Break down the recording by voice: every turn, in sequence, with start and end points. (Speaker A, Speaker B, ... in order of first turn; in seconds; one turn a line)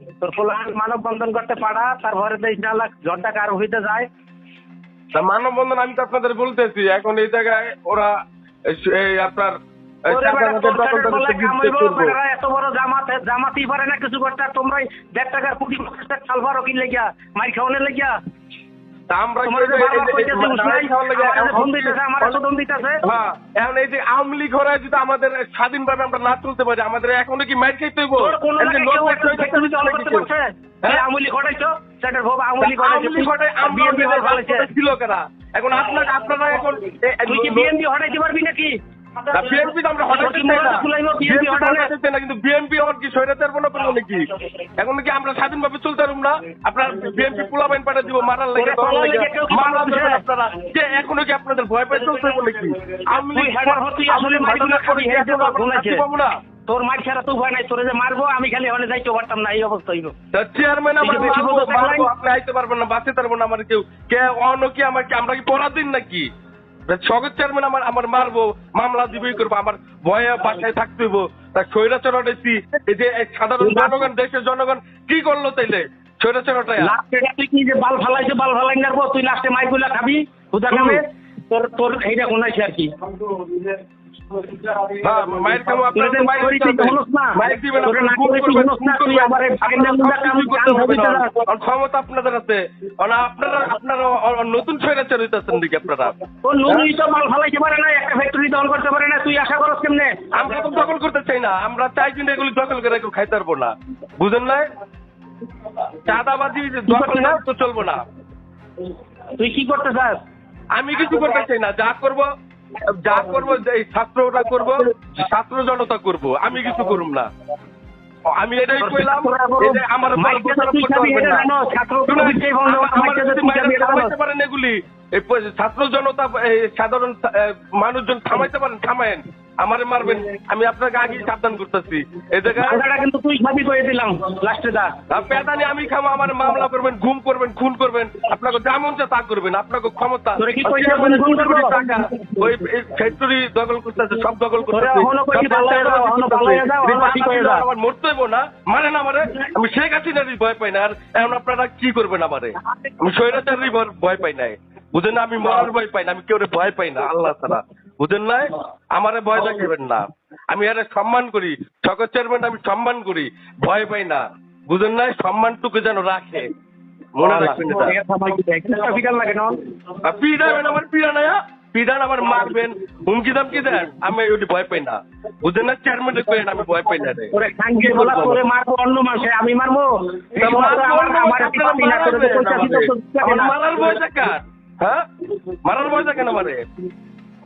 Speaker A: 0.2-4.1
Speaker B: 5.1-8.2
Speaker B: 8.7-9.6
Speaker B: 10.1-12.2
Speaker A: 10.1-18.1
Speaker B: 19.1-22.4
Speaker A: 19.4-23.0
Speaker B: 23.0-30.3
Speaker A: 28.2-34.7
Speaker B: 32.6-37.7
Speaker A: 37.3-38.7
Speaker A: 39.3-41.9
Speaker B: 39.3-56.3
Speaker A: 48.6-50.2
Speaker A: 53.3-56.0
Speaker A: 56.7-60.1
Speaker B: 60.3-66.3
Speaker A: 61.0-62.1
Speaker B: 66.9-76.9
Speaker A: 73.6-74.0
Speaker A: 76.8-82.9
Speaker B: 80.7-81.0
Speaker B: 85.0-96.1
Speaker A: 85.9-91.5
Speaker A: 96.4-100.2
Speaker B: 100.3-104.7
Speaker B: 106.0-108.0
Speaker A: 106.9-107.4
Speaker A: 109.4-110.2
Speaker B: 110.8-112.3
Speaker B: 112.9-117.3
Speaker B: 118.4-121.5
Speaker A: 118.8-124.1
Speaker B: 122.1-132.8
Speaker A: 132.6-134.9
Speaker B: 135.1-166.5
Speaker A: 140.4-142.4
Speaker A: 144.7-147.6
Speaker B: 167.2-167.9
Speaker A: 167.2-169.6
Speaker B: 170.0-178.4
Speaker A: 177.3-183.5
Speaker B: 180.4-185.0
Speaker B: 185.6-186.6